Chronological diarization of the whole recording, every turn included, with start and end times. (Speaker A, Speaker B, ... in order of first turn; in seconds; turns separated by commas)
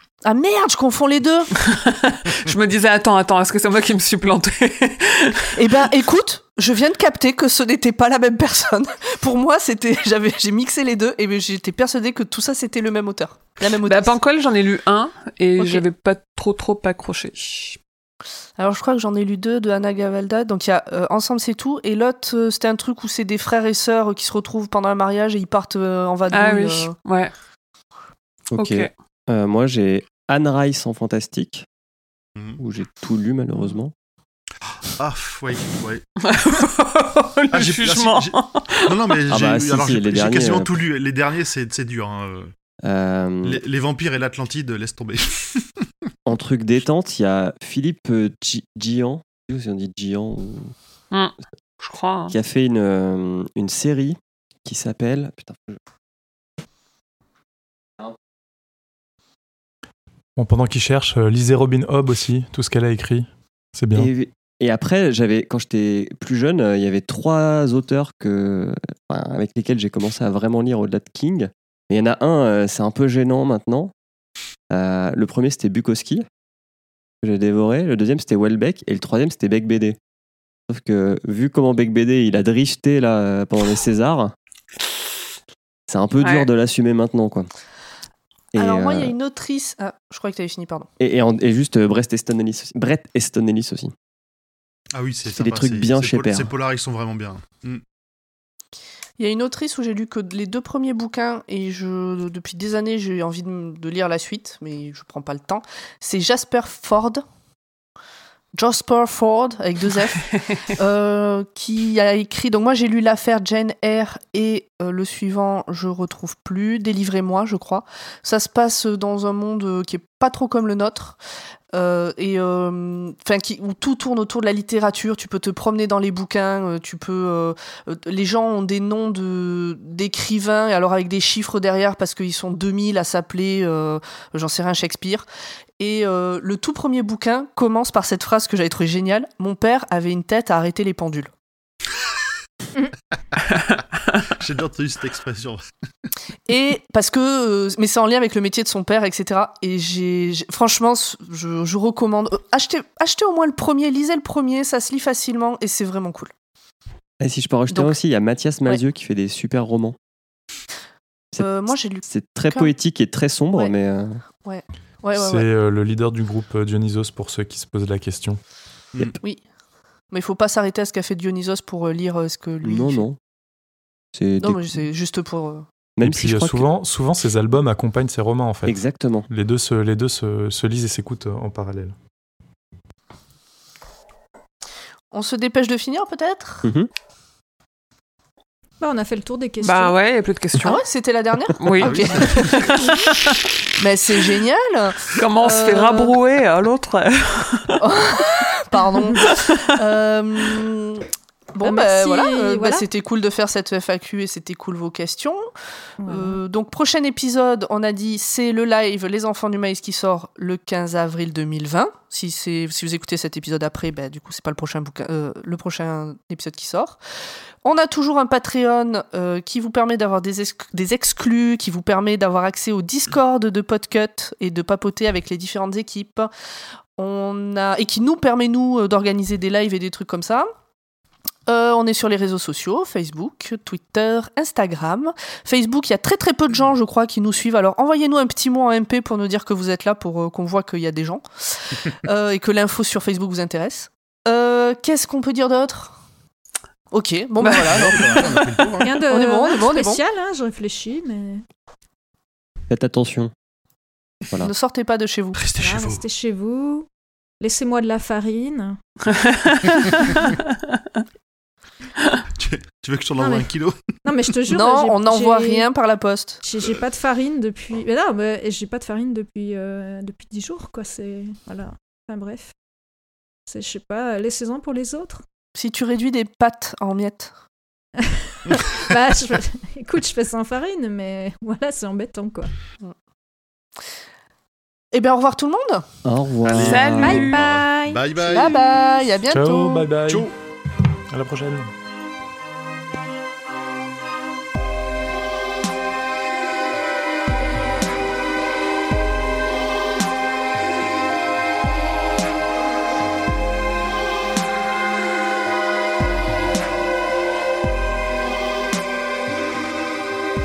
Speaker A: 0.2-1.5, Speaker B: 1.6-5.6, Speaker A: 5.5-14.2, Speaker B: 13.8-17.8, Speaker A: 15.6-15.8, Speaker A: 18.6-26.9, Speaker B: 26.3-27.3, Speaker C: 28.5-31.6, Speaker B: 28.6-28.9, Speaker C: 32.6-33.9, Speaker D: 35.0-36.1, Speaker B: 36.2-39.2, Speaker D: 37.5-42.5, Speaker C: 39.3-40.7, Speaker C: 42.8-43.6, Speaker D: 43.4-45.6, Speaker C: 46.3-50.7, Speaker B: 51.1-52.3, Speaker C: 52.3-55.8, Speaker E: 60.4-64.1, Speaker C: 64.0-73.9, Speaker C: 74.7-76.3, Speaker C: 77.2-80.0, Speaker C: 80.7-84.3, Speaker C: 85.9-87.5, Speaker B: 86.2-86.5, Speaker C: 88.5-89.1, Speaker A: 88.6-90.9, Speaker C: 91.0-93.9, Speaker D: 94.9-97.8, Speaker C: 95.3-96.5, Speaker A: 99.2-107.2, Speaker A: 108.5-121.2, Speaker A: 121.7-135.2, Speaker A: 135.8-141.3, Speaker D: 144.4-145.7, Speaker A: 146.5-156.3, Speaker C: 157.2-160.0, Speaker A: 157.7-158.0, Speaker A: 161.4-162.7, Speaker C: 162.0-164.2, Speaker A: 164.4-165.5, Speaker E: 165.2-168.4, Speaker A: 170.1-173.1, Speaker C: 172.6-173.2, Speaker C: 174.1-174.8, Speaker A: 174.4-175.7, Speaker C: 176.0-176.7, Speaker E: 176.0-181.9, Speaker C: 178.7-179.3, Speaker A: 185.1-186.7, Speaker F: 188.8-189.9, Speaker B: 189.6-190.8, Speaker A: 190.6-192.9, Speaker B: 191.6-193.4, Speaker D: 191.8-192.7, Speaker A: 193.8-196.2, Speaker B: 195.2-197.8, Speaker A: 197.8-205.4, Speaker F: 199.0-199.3, Speaker B: 199.2-199.6, Speaker F: 201.6-202.9, Speaker F: 206.0-206.4, Speaker A: 206.1-217.0, Speaker A: 217.6-226.3, Speaker A: 227.0-230.5, Speaker A: 231.5-246.0, Speaker A: 246.9-248.4, Speaker B: 247.4-248.8, Speaker D: 247.6-249.0, Speaker F: 248.8-251.4, Speaker A: 249.1-250.0, Speaker C: 252.7-253.3, Speaker A: 254.4-255.4, Speaker D: 255.3-256.0, Speaker F: 255.6-256.9, Speaker F: 257.4-258.8, Speaker B: 259.1-260.8, Speaker F: 259.9-260.1, Speaker D: 262.4-263.8, Speaker F: 263.2-263.5, Speaker F: 264.0-265.7, Speaker A: 264.5-266.4, Speaker F: 266.4-272.6, Speaker F: 273.5-275.2, Speaker A: 275.6-277.3, Speaker F: 278.0-282.5, Speaker A: 284.9-285.9, Speaker C: 286.1-287.4, Speaker D: 286.4-288.7, Speaker B: 286.6-287.5, Speaker F: 287.0-288.0, Speaker A: 288.2-289.9, Speaker E: 289.3-290.3, Speaker D: 290.0-290.3, Speaker E: 291.1-291.7